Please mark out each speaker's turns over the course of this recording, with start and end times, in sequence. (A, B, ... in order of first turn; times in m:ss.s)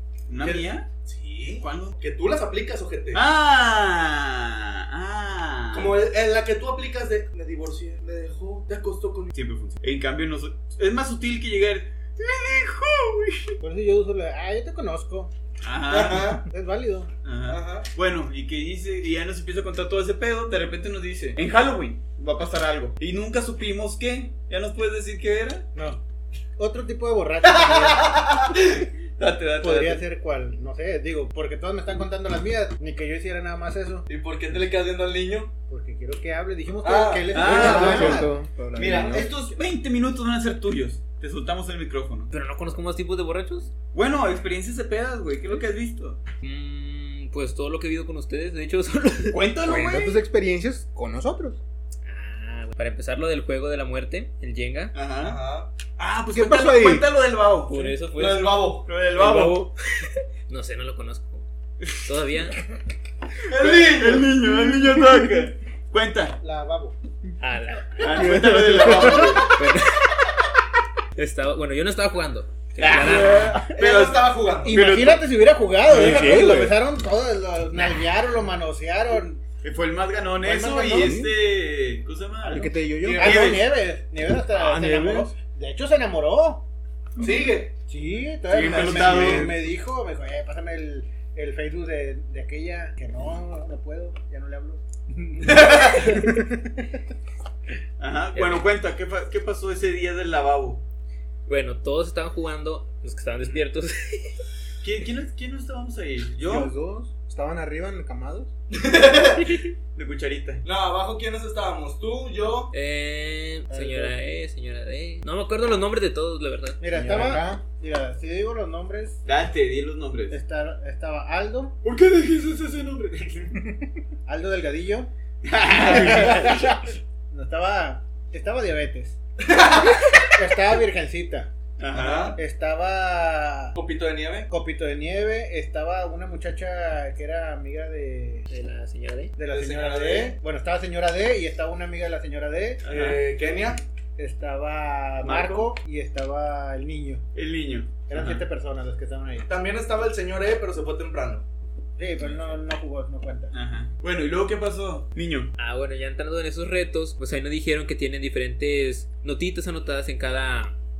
0:00.3-0:00.9 A
0:00.4-0:03.2 B
0:01.6-0:02.0 A
0:03.1-0:06.0 A
0:05.7-0:09.4 B
0:09.3-0:13.6 A
0:13.6-0:15.3 C
0:15.6-0:16.4 A
0:15.9-0:16.4 B
0:16.4-0:17.1 C
0:17.2-0:25.7 A
0:17.5-0:17.9 B
0:25.8-0:26.0 C
0:26.6-0:28.1 C
0:27.4-0:28.9 B
0:29.2-0:30.0 A
0:29.6-0:34.1 C
0:34.1-0:35.5 B
0:35.7-0:38.3 C
0:36.8-0:38.3 B
0:37.3-0:42.3 A
0:37.4-0:39.3 D
0:42.3-0:43.7 E
0:43.9-0:46.2 A
0:46.4-0:49.5 E
0:49.3-0:50.2 A
0:49.6-0:51.6 D
0:52.1-0:54.9 E
0:54.9-0:55.4 A
0:55.2-0:55.7 B
0:56.0-0:57.9 A
0:56.3-0:57.1 D
0:57.6-0:58.6 E
0:58.1-0:58.9 B
0:58.9-0:59.6 A
0:59.1-1:01.4 E
1:02.0-1:02.6 E
1:03.5-1:04.3 B
1:03.5-1:06.4 A
1:06.4-1:07.0 C
1:07.4-1:08.5 E
1:08.0-1:09.5 A
1:08.2-1:09.3 D
1:08.7-1:09.2 C
1:09.1-1:10.2 E
1:11.2-1:13.7 E
1:12.8-1:15.3 A
1:13.0-1:14.8 B
1:14.6-1:19.4 C
1:15.8-1:16.8 D
1:15.9-1:16.7 A
1:19.6-1:23.7 A
1:20.4-1:21.2 C
1:20.9-1:21.3 D
1:22.4-1:23.5 D
1:22.4-1:26.6 C
1:23.0-1:23.4 B
1:24.5-1:25.3 D
1:27.2-1:27.7 B
1:27.9-1:36.8 C
1:28.5-1:29.6 A
1:28.6-1:29.5 D
1:35.4-1:36.2 B
1:38.0-1:40.8 A
1:38.4-1:38.6 E
1:41.5-1:44.4 E
1:44.8-1:46.7 A
1:46.4-1:48.5 D
1:48.7-1:49.6 B
1:50.0-1:50.6 A
1:50.6-1:52.7 B
1:52.7-1:56.8 E
1:53.7-1:54.1 C
1:56.8-1:59.2 C
1:56.9-1:57.6 D
1:59.2-2:00.4 A
2:00.3-2:01.8 C
2:01.8-2:03.5 A
2:04.3-2:09.2 C
2:05.4-2:06.7 A
2:09.4-2:10.2 B
2:09.9-2:11.5 C
2:11.8-2:12.4 A
2:11.9-2:12.4 B
2:12.4-2:13.8 C
2:13.8-2:14.5 B
2:14.5-2:18.5 C
2:18.5-2:19.3 E
2:19.4-2:22.8 C
2:19.5-2:20.4 B
2:22.8-2:23.2 A
2:22.8-2:23.8 B
2:24.2-2:27.2 C
2:25.2-2:25.7 A
2:27.4-2:28.4 A
2:28.1-2:29.5 C
2:29.5-2:31.4 B
2:32.0-2:33.5 C
2:32.2-2:32.5 A
2:33.5-2:35.5 A
2:35.6-2:40.7 E